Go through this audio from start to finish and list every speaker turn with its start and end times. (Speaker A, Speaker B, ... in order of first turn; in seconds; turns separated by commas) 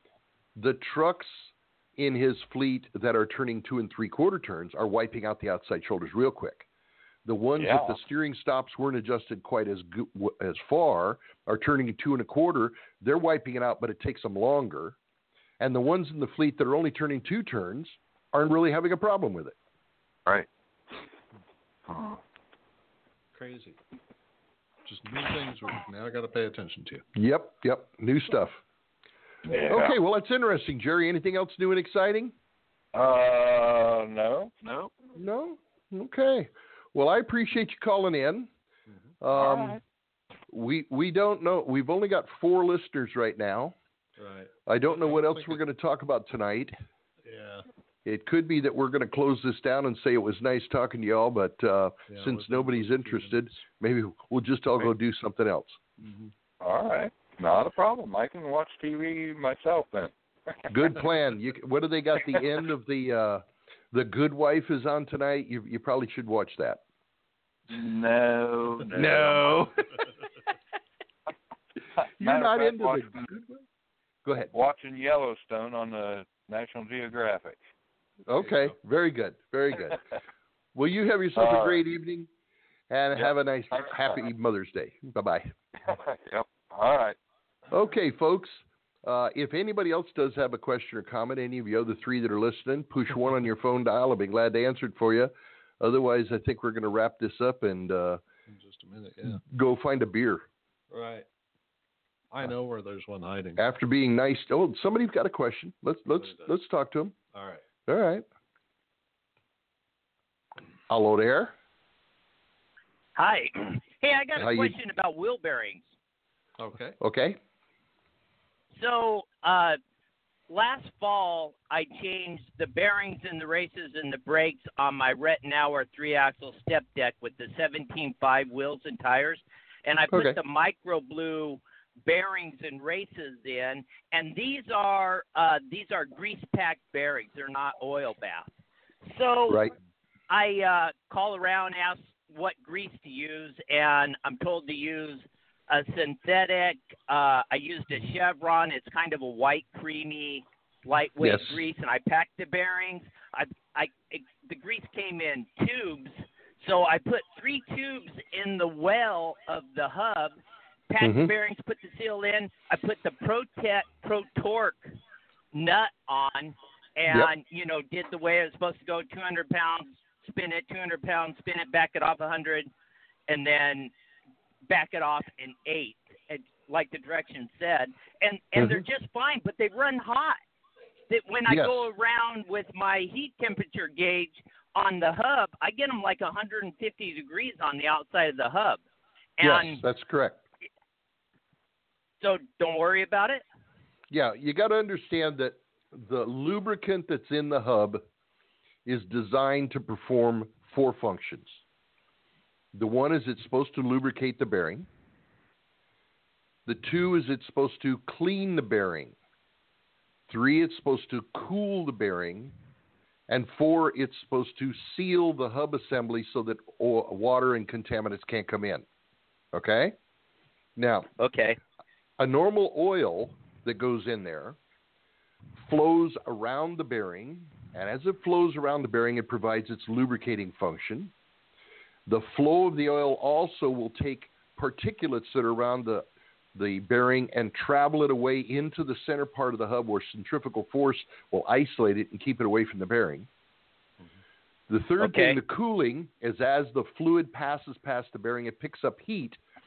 Speaker A: 0.6-6.7, Speaker A: 7.2-15.0, Speaker B: 7.6-8.0, Speaker A: 15.6-19.6, Speaker B: 21.9-22.2, Speaker C: 23.3-23.8, Speaker C: 24.9-27.0, Speaker A: 27.2-28.6, Speaker B: 29.5-29.9, Speaker A: 29.7-32.3, Speaker B: 32.9-34.9, Speaker A: 35.1-38.5, Speaker C: 38.9-39.1, Speaker A: 39.2-39.8, Speaker B: 39.3-39.8, Speaker A: 40.5-43.8, Speaker C: 44.2-45.5, Speaker A: 44.7-46.8, Speaker C: 47.2-47.7, Speaker A: 48.0-55.8, Speaker C: 52.1-53.4, Speaker C: 56.0-56.3, Speaker B: 56.6-60.5, Speaker A: 60.7-66.8, Speaker B: 67.7-69.6, Speaker A: 68.9-69.9, Speaker A: 72.2-73.6, Speaker B: 72.2-73.2, Speaker A: 74.2-74.5, Speaker B: 74.5-77.6, Speaker A: 78.3-80.0, Speaker A: 80.8-82.3, Speaker B: 81.4-81.8, Speaker A: 82.9-85.5, Speaker B: 83.2-84.2, Speaker B: 85.8-87.2, Speaker A: 87.7-98.2, Speaker C: 98.5-99.4, Speaker A: 99.4-100.5, Speaker C: 100.9-101.3, Speaker C: 102.3-103.6, Speaker A: 103.6-107.2, Speaker C: 106.2-106.5, Speaker C: 107.3-107.6, Speaker A: 107.9-108.2, Speaker A: 110.9-111.5, Speaker D: 113.2-115.8, Speaker A: 114.4-114.8, Speaker C: 116.6-117.0, Speaker A: 117.0-117.4, Speaker D: 118.8-119.8, Speaker D: 120.5-138.5, Speaker A: 130.1-130.4, Speaker D: 139.1-139.6, Speaker D: 140.3-160.4, Speaker A: 151.2-151.6, Speaker D: 160.9-164.9, Speaker A: 161.0-161.3, Speaker D: 165.5-172.7, Speaker D: 173.3-173.9, Speaker D: 174.7-180.4, Speaker D: 181.1-188.8, Speaker A: 181.5-181.9, Speaker D: 189.4-189.8, Speaker A: 189.4-190.4, Speaker D: 192.2-193.4, Speaker A: 194.1-198.0, Speaker A: 198.9-201.6, Speaker A: 202.7-204.9, Speaker A: 206.7-209.2, Speaker A: 210.3-212.6, Speaker A: 213.3-218.8, Speaker A: 219.5-219.9, Speaker A: 220.8-221.1, Speaker D: 221.2-221.6, Speaker A: 222.2-224.6, Speaker A: 225.6-231.1, Speaker A: 232.1-243.3, Speaker A: 244.7-249.4, Speaker D: 245.0-245.4